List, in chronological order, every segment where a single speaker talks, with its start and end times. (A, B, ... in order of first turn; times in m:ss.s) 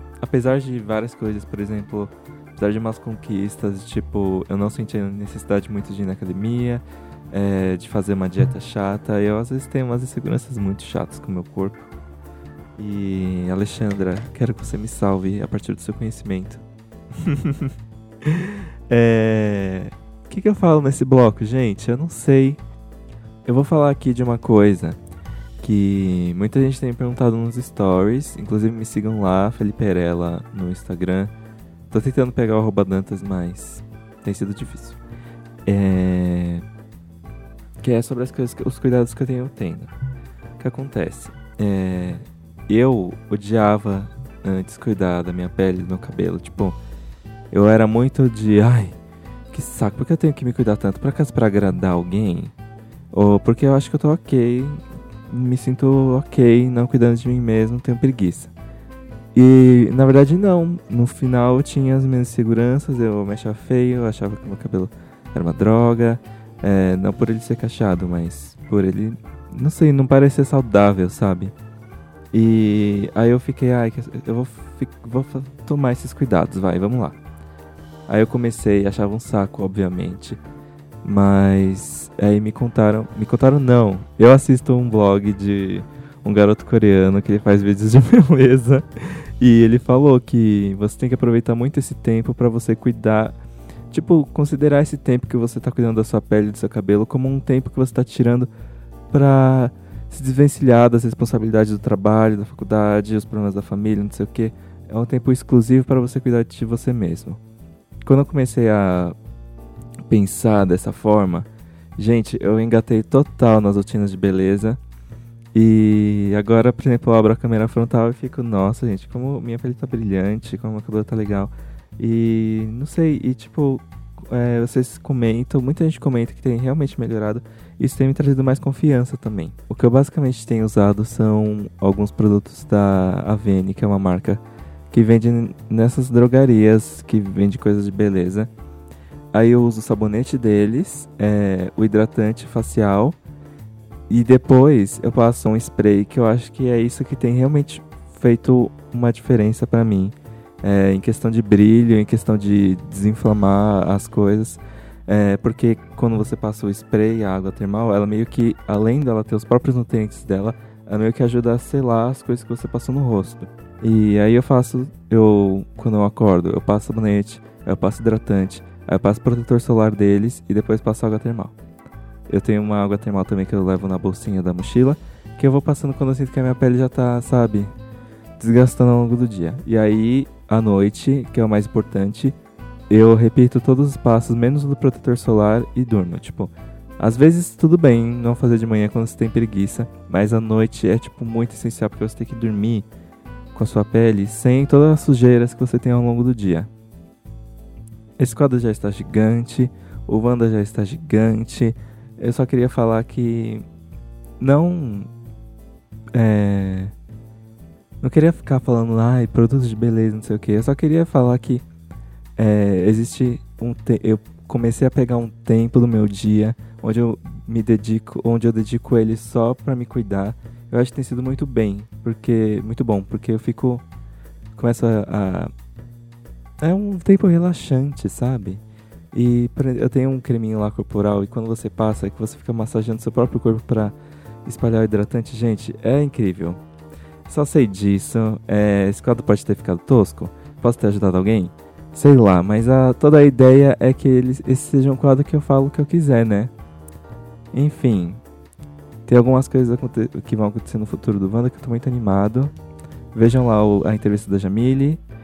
0:00.2-0:11.9 A
0:12.8-0:16.6 A
0:17.2-0:17.7 A
0:18.2-0:22.6 A
0:23.5-0:25.0 A
0:25.6-0:31.3 A
0:31.9-0:35.0 A
0:35.7-0:36.6 A
0:37.8-0:39.9 A
0:40.6-0:46.8 A
0:47.5-0:49.0 A
0:49.5-0:52.5 A
0:53.1-0:58.5 A
0:59.4-1:11.5 A
1:12.3-1:17.2 A
1:18.1-1:20.4 A
1:21.0-1:33.3 A
1:33.9-1:38.5 A
1:39.1-1:47.4 A
1:48.0-1:49.2 A
1:50.1-1:51.5 A
1:52.0-1:54.8 A
1:55.5-2:18.5 A
2:19.3-2:23.2 A
2:24.1-2:51.5 A
2:52.3-2:57.7 A
2:58.4-3:02.3 A
3:02.9-3:12.9 A
3:13.5-3:16.7 A
3:18.2-3:23.6 A
3:24.4-3:25.1 A
3:26.1-3:26.9 A
3:28.0-3:31.6 A
3:32.4-3:43.8 A
3:44.6-3:45.5 A
3:46.6-3:48.6 A
3:49.1-3:56.6 A
3:57.3-4:06.5 A
4:07.5-4:08.2 A
4:09.1-4:12.5 A
4:13.1-4:15.0 A